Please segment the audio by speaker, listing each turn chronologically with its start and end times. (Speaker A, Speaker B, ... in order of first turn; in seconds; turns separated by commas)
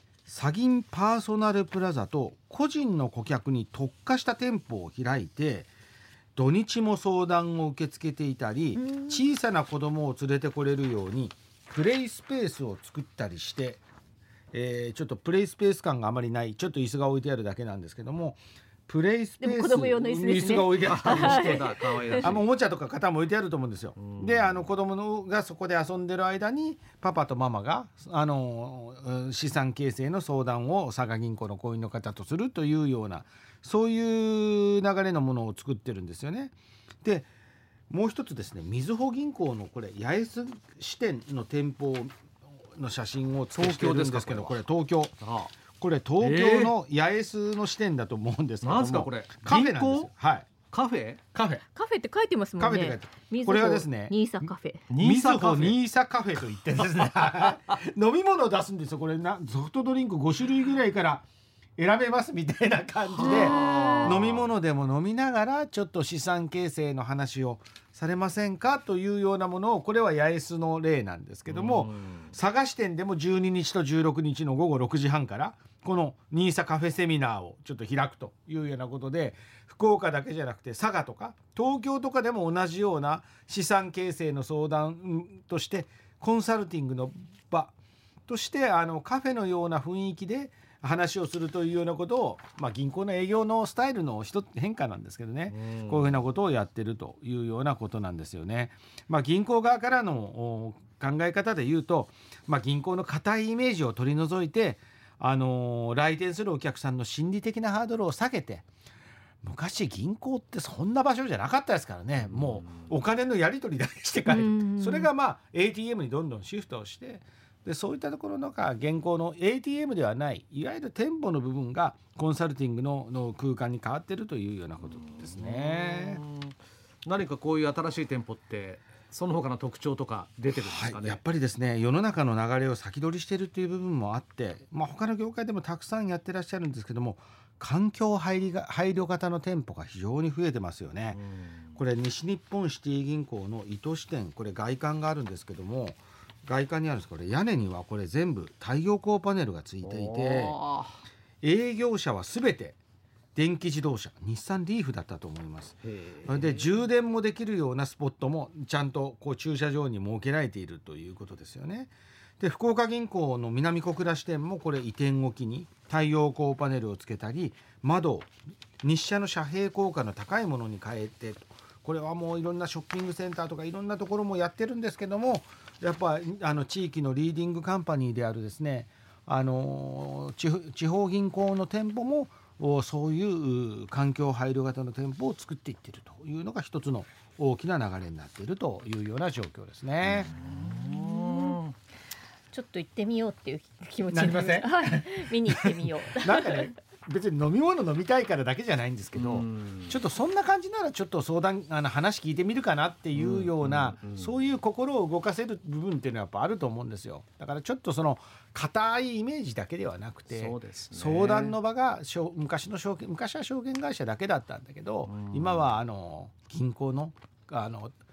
Speaker A: 0.3-5.7, Speaker A: 6.3-13.8, Speaker B: 8.8-9.2, Speaker A: 14.5-37.3, Speaker B: 19.4-22.2, Speaker C: 20.8-22.5, Speaker C: 24.0-24.7, Speaker A: 37.9-42.1, Speaker A: 42.7-45.1, Speaker C: 43.5-44.6, Speaker C: 45.2-45.5, Speaker A: 45.7-50.5, Speaker C: 46.2-46.7, Speaker C: 48.6-50.1, Speaker C: 50.7-51.2, Speaker A: 51.3-51.6, Speaker B: 51.8-54.9, Speaker A: 52.6-61.3, Speaker C: 54.9-55.8, Speaker A: 61.8-87.8, Speaker C: 63.2-64.5, Speaker B: 63.3-64.1, Speaker C: 71.5-72.3, Speaker A: 88.3-108.7, Speaker C: 95.5-96.2, Speaker A: 109.4-126.2, Speaker C: 112.2-112.9, Speaker B: 114.3-115.1, Speaker C: 125.1-131.2, Speaker A: 130.6-141.2, Speaker C: 141.1-141.8, Speaker A: 141.8-150.6, Speaker C: 149.8-151.0, Speaker A: 151.4-152.8, Speaker A: 153.3-168.3, Speaker C: 155.9-156.7, Speaker A: 168.8-190.3, Speaker C: 190.0-191.7, Speaker B: 190.4-191.6, Speaker B: 192.5-196.7, Speaker A: 194.1-217.9, Speaker C: 199.2-199.9, Speaker C: 203.1-204.3, Speaker C: 210.3-211.6, Speaker C: 215.1-215.7